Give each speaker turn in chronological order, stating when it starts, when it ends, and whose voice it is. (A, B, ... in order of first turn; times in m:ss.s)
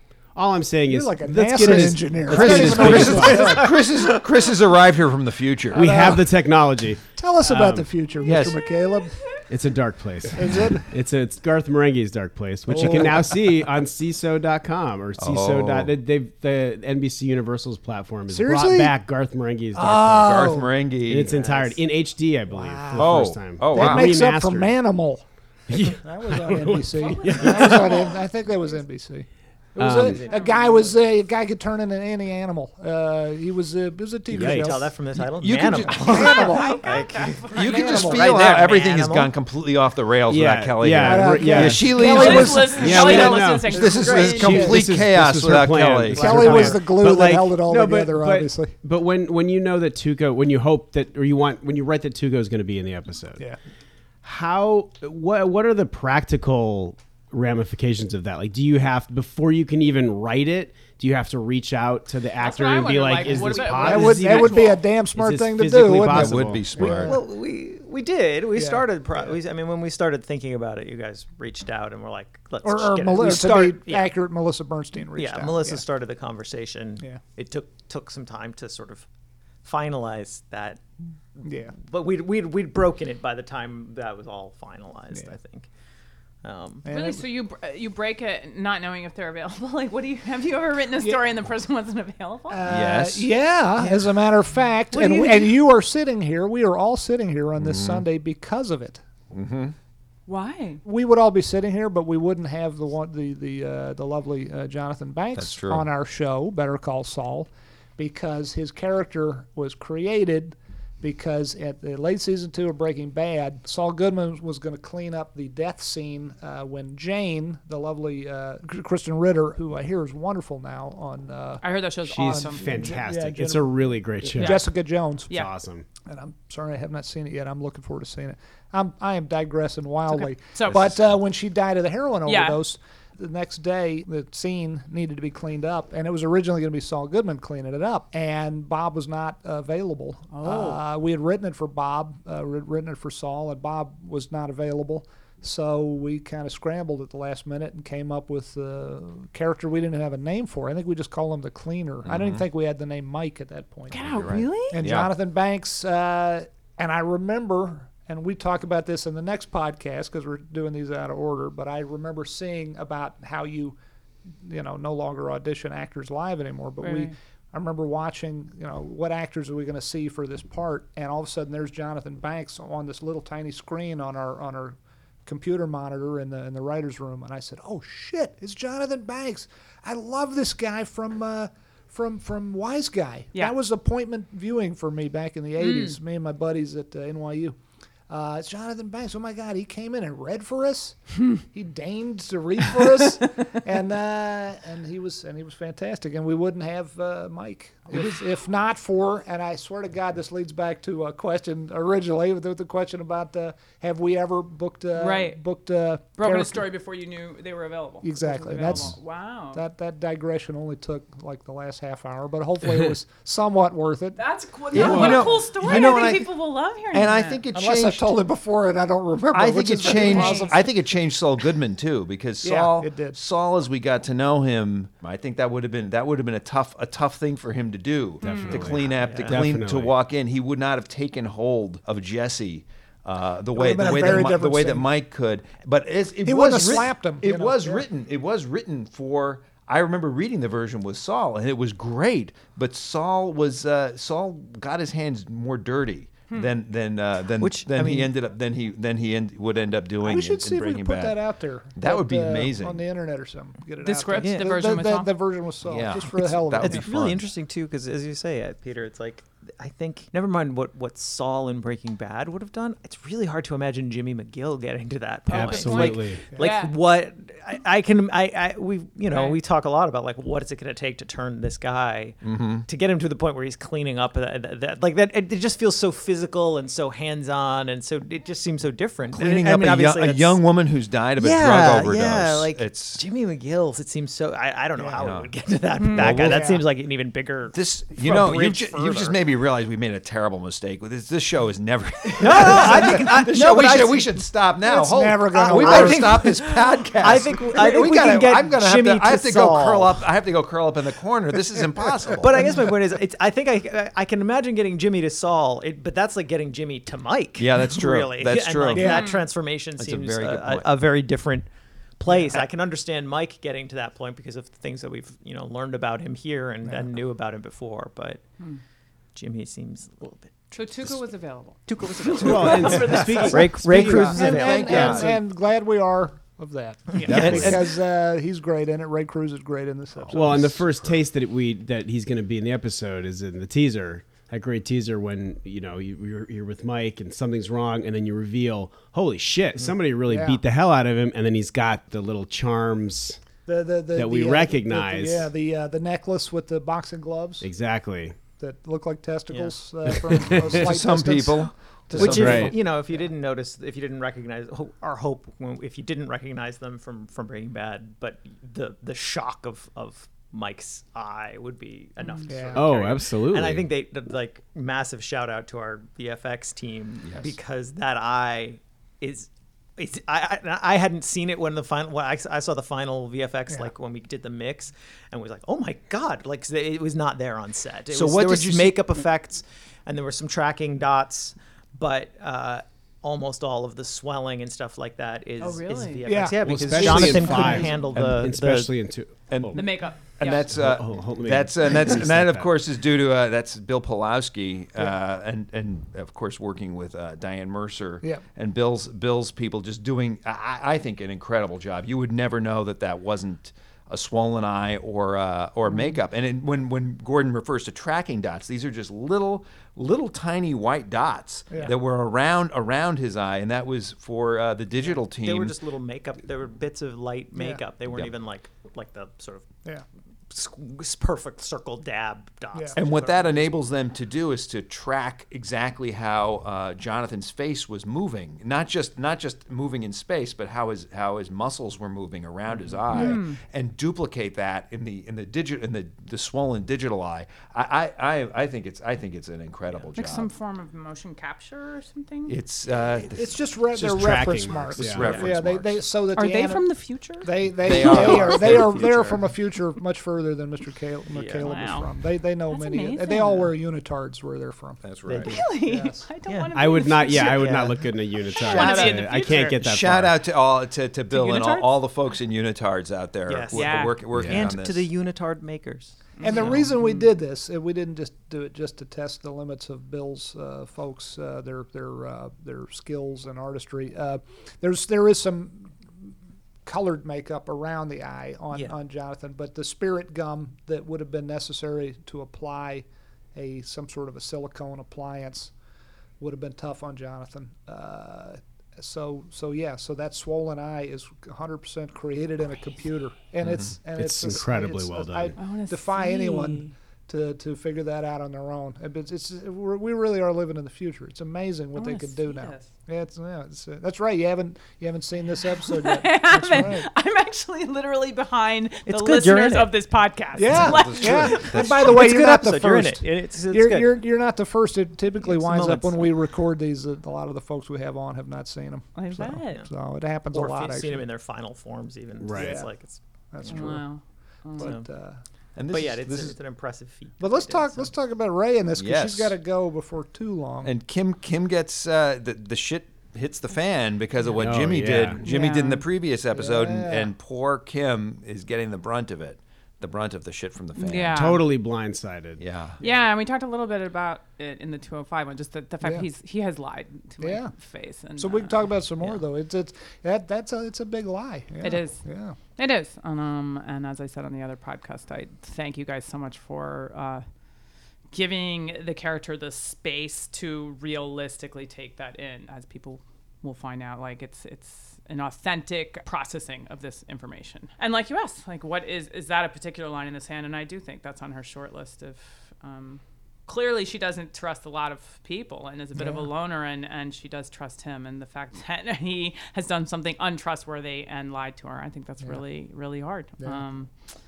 0:00.3-0:03.7 A
0:00.9-0:03.7 B
0:01.7-0:06.1 C
0:03.4-0:04.0 D
0:05.7-0:07.9 A
0:05.7-0:06.3 B
0:07.2-0:09.4 B
0:08.2-0:08.6 C
0:09.4-0:20.4 A
0:10.3-0:10.9 B
0:12.7-0:13.5 B
0:15.2-0:15.9 C
0:18.3-0:19.0 B
0:19.7-0:20.7 B
0:20.0-0:21.4 C
0:21.0-0:24.8 A
0:21.2-0:21.8 D
0:22.5-0:34.9 B
0:23.0-0:24.2 C
0:25.7-0:27.7 A
0:27.0-0:28.2 E
0:27.2-0:28.1 D
0:29.8-0:30.3 A
0:30.0-0:30.6 D
0:30.3-0:30.6 E
0:34.3-0:34.8 A
0:34.3-0:39.3 D
0:35.4-0:36.3 C
0:36.0-0:37.0 B
0:36.0-0:37.9 E
0:37.5-0:46.8 C
0:37.6-0:38.4 B
0:40.3-0:53.4 A
0:41.0-0:44.8 B
0:41.4-0:44.8 E
0:46.1-0:48.8 B
0:54.2-1:06.7 A
1:02.4-1:04.8 E
1:03.3-1:07.2 B
1:06.0-1:07.2 C
1:06.8-1:14.2 D
1:08.5-1:09.3 B
1:12.6-1:15.8 B
1:15.1-1:19.0 D
1:19.6-1:20.8 D
1:21.4-1:25.7 D
1:21.4-1:21.7 B
1:26.4-1:26.8 D
1:26.8-1:27.2 B
1:26.8-1:32.6 E
1:32.5-1:39.0 B
1:32.6-1:33.3 C
1:34.9-1:35.6 E
1:37.6-1:38.0 C
1:39.3-1:39.7 C
1:40.3-1:40.8 E
1:40.8-2:01.6 B
1:45.4-1:45.8 C
2:01.6-2:02.7 E
2:02.1-2:04.7 A
2:02.2-2:05.3 B
2:04.3-2:04.7 E
2:05.3-2:05.8 A
2:06.0-2:43.8 B
2:10.1-2:10.9 E
2:12.2-2:12.6 E
2:20.3-2:20.8 E
2:32.0-2:32.4 C
2:33.9-2:34.8 E
2:34.0-2:35.1 C
2:44.4-3:07.6 B
2:46.8-2:47.1 E
3:05.6-3:06.0 E
3:08.1-3:26.6 B
3:24.9-3:25.4 E
3:26.2-3:29.6 E
3:28.0-3:29.0 B
3:29.5-3:34.2 B
3:34.2-3:37.4 E
3:34.7-3:35.9 B
3:34.7-3:36.3 C
3:36.9-3:38.2 C
3:37.5-3:40.7 B
3:39.3-4:11.2 C
3:39.8-3:40.6 E
3:42.4-3:43.2 B
3:48.2-3:48.7 E
3:48.2-3:49.9 A
3:48.8-3:49.5 D
3:53.5-3:54.9 B
3:56.2-3:57.8 B
4:07.4-4:08.1 D
4:10.0-4:16.9 B
4:11.7-4:12.8 C
4:13.8-4:15.2 E
4:14.2-4:14.5 D
4:15.6-4:17.3 C
4:16.6-4:40.4 D
4:25.3-4:26.2 A
4:25.3-4:26.7 E
4:29.1-4:29.4 E
4:32.2-4:32.6 C
4:39.1-4:43.0 C
4:41.2-4:47.6 D
4:44.8-4:45.0 B
4:45.0-4:45.3 C
4:45.8-4:46.1 E
4:45.9-4:46.4 C
4:46.0-4:46.6 B
4:47.5-5:02.6 C
4:48.0-4:49.0 B
4:52.2-4:54.1 D
4:54.6-4:56.4 B
4:55.3-5:00.0 D
5:02.2-5:11.5 D
5:07.4-5:09.0 C
5:08.7-5:09.0 B
5:08.8-5:09.2 E
5:09.8-5:10.7 C
5:12.0-5:18.2 D
5:19.1-5:20.9 D
5:20.5-5:23.4 E
5:21.7-5:25.1 D
5:22.2-5:24.9 A
5:22.3-5:22.8 C
5:23.6-5:25.2 C
5:23.8-5:30.6 B
5:27.0-5:27.6 D
5:27.0-5:27.6 C
5:27.1-5:27.4 A
5:30.1-5:30.9 C
5:30.1-5:43.2 A
5:40.1-5:40.4 B
5:43.4-5:47.5 B
5:43.9-5:45.3 A
5:47.4-5:48.2 A
5:48.4-5:52.5 B
5:50.4-5:52.6 C
5:51.9-6:28.7 D
5:52.0-5:52.5 A
6:02.0-6:02.3 E
6:02.3-6:02.7 B
6:02.5-6:03.7 A
6:07.0-6:07.3 C
6:17.9-6:18.8 C
6:25.4-6:26.1 E
6:26.0-6:27.8 B
6:26.4-6:29.7 A
6:29.3-6:55.5 C
6:29.5-6:30.5 E
6:30.5-6:32.5 A
6:54.9-6:59.6 D
6:57.4-6:57.6 B
7:00.3-7:03.5 D
7:02.8-7:20.3 C
7:12.5-7:12.8 D
7:12.9-7:13.4 E
7:19.9-7:22.4 E
7:22.2-7:23.4 C
7:23.1-7:26.6 B
7:23.7-7:25.3 A
7:24.7-7:25.8 C
7:26.1-7:28.4 E
7:27.2-7:34.8 B
7:27.6-7:29.3 C
7:31.1-7:31.4 D
7:31.4-7:31.9 E
7:32.5-7:33.5 E
7:34.8-7:35.4 C
7:35.1-7:35.6 D
7:35.2-7:39.6 E
7:35.6-7:36.0 B
7:36.3-7:37.9 D
7:36.5-7:40.2 A
7:38.4-7:38.9 D
7:39.6-7:44.9 C
7:41.1-7:41.8 E
7:43.2-7:46.6 D
7:43.5-7:44.0 E
7:44.2-7:44.4 A
7:46.2-7:47.1 E
7:46.2-7:55.8 B
7:56.6-8:05.5 B
8:06.2-8:26.9 B
8:13.4-8:13.7 C
8:13.9-8:15.4 A
8:15.4-8:16.7 E
8:21.7-8:22.7 E
8:25.6-8:31.7 E
8:28.9-8:29.7 D
8:30.4-8:41.0 B
8:30.5-8:31.9 C
8:31.2-8:34.0 D
8:35.2-8:36.1 D
8:39.0-8:39.6 E
8:40.3-8:43.7 D
8:42.2-8:42.6 A
8:42.4-8:42.7 B
8:43.3-8:43.8 B
8:43.4-8:44.7 E
8:44.5-8:45.2 B
8:44.6-8:44.8 D
8:45.6-8:46.4 C
8:45.7-8:47.9 D
8:47.2-8:50.7 B
8:48.7-8:49.4 C
8:50.6-9:01.3 C
8:54.4-8:55.2 A
8:55.2-8:55.8 E
8:56.3-8:57.1 B
9:00.8-9:01.5 E
9:01.0-9:02.4 A
9:02.4-9:02.8 C
9:02.8-9:09.2 E
9:07.2-9:07.5 B
9:08.2-9:12.4 B
9:11.6-9:12.0 E
9:12.6-9:17.2 E
9:18.1-9:43.9 E
9:36.0-9:36.3 B